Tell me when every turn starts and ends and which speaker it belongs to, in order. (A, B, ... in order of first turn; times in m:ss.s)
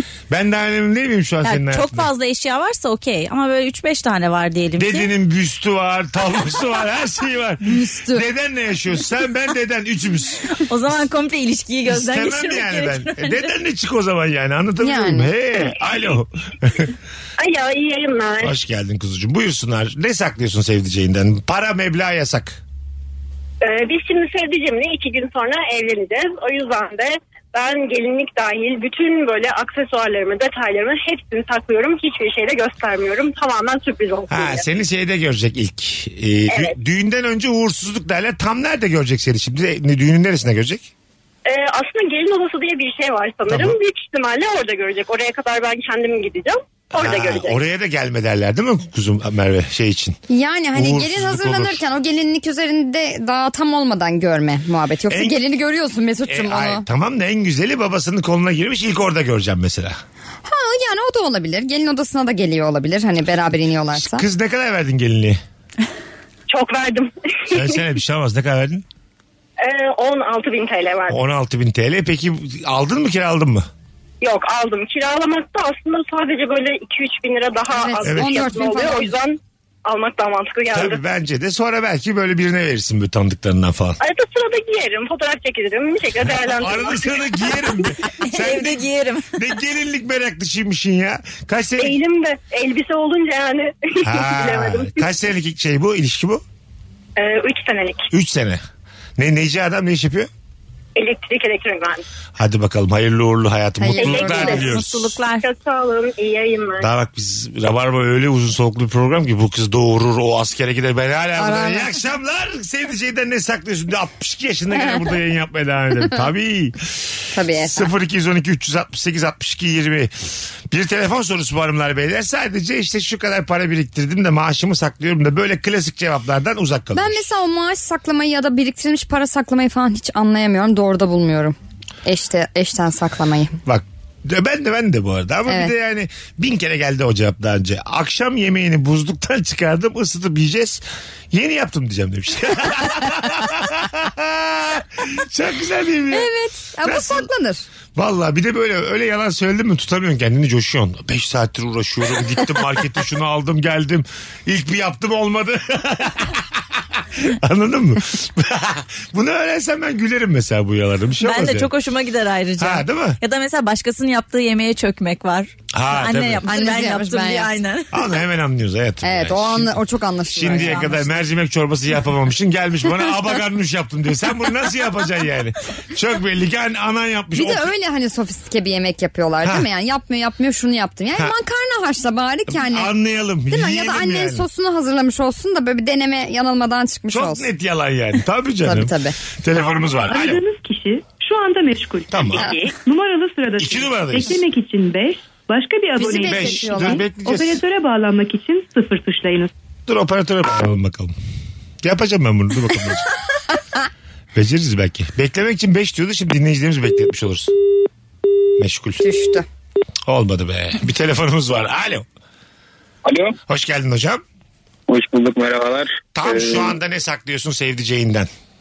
0:00.3-0:02.1 A
0:01.4-0:05.1 B
0:04.8-0:10.5 A
0:07.6-0:08.2 C
0:10.6-0:13.5 B
0:11.9-0:16.9 A
0:14.8-0:15.3 C
0:17.4-0:18.5 D
0:18.4-0:22.6 A
0:23.6-0:34.6 D
0:34.3-0:40.9 A
0:41.4-0:47.6 D
0:43.5-0:43.8 A
0:46.9-0:50.2 A
0:50.3-0:56.8 C
0:50.7-0:51.8 A
0:55.1-0:55.4 A
0:56.3-1:00.0 A
1:00.4-1:04.2 C
1:03.9-1:05.4 A
1:06.5-1:07.6 D
1:07.5-1:08.8 A
1:09.6-1:11.2 D
1:11.1-1:13.7 A
1:14.2-1:21.0 D
1:17.7-1:19.1 C
1:18.0-1:18.5 A
1:20.7-1:24.0 A
1:24.0-1:27.7 D
1:26.2-1:32.0 A
1:28.2-1:29.2 B
1:31.8-1:35.0 D
1:34.0-1:36.4 A
1:37.2-1:38.0 D
1:38.1-1:38.6 A
1:39.2-1:40.3 A
1:41.0-1:42.0 D
1:42.4-1:45.2 A
1:43.8-1:44.8 C
1:44.0-1:44.7 D
1:44.3-1:45.4 B
1:45.4-1:46.9 D
1:46.8-2:00.1 A
1:51.4-1:51.9 C
1:57.3-1:57.9 C
2:00.7-2:07.2 A
2:06.9-2:13.6 C
2:13.6-2:26.3 A
2:26.1-2:27.6 C
2:26.8-2:27.3 A
2:27.9-2:41.7 A
2:41.2-2:48.0 B
2:42.6-2:43.2 A
2:45.7-2:46.5 A
2:46.4-2:47.5 C
2:47.9-2:49.8 A
2:49.0-2:51.0 C
2:50.3-2:57.7 A
2:50.4-2:51.0 B
2:57.3-3:02.9 C
3:02.5-3:04.4 A
3:03.5-3:07.5 C
3:07.1-3:10.4 A
3:08.6-3:09.1 C
3:10.4-3:12.1 E
3:12.1-3:12.5 A
3:12.4-3:12.7 D
3:13.0-3:16.2 E
3:13.6-3:14.4 A
3:16.0-3:17.1 C
3:16.0-3:17.6 A
3:17.4-3:19.5 E
3:19.9-3:21.1 A
3:21.8-3:23.1 A
3:24.3-3:27.5 A
3:28.6-3:29.0 A
3:29.0-3:29.4 C
3:30.0-3:32.0 A
3:33.0-3:33.4 F
3:33.5-3:34.2 A
3:34.9-3:36.7 F
3:36.1-3:38.3 A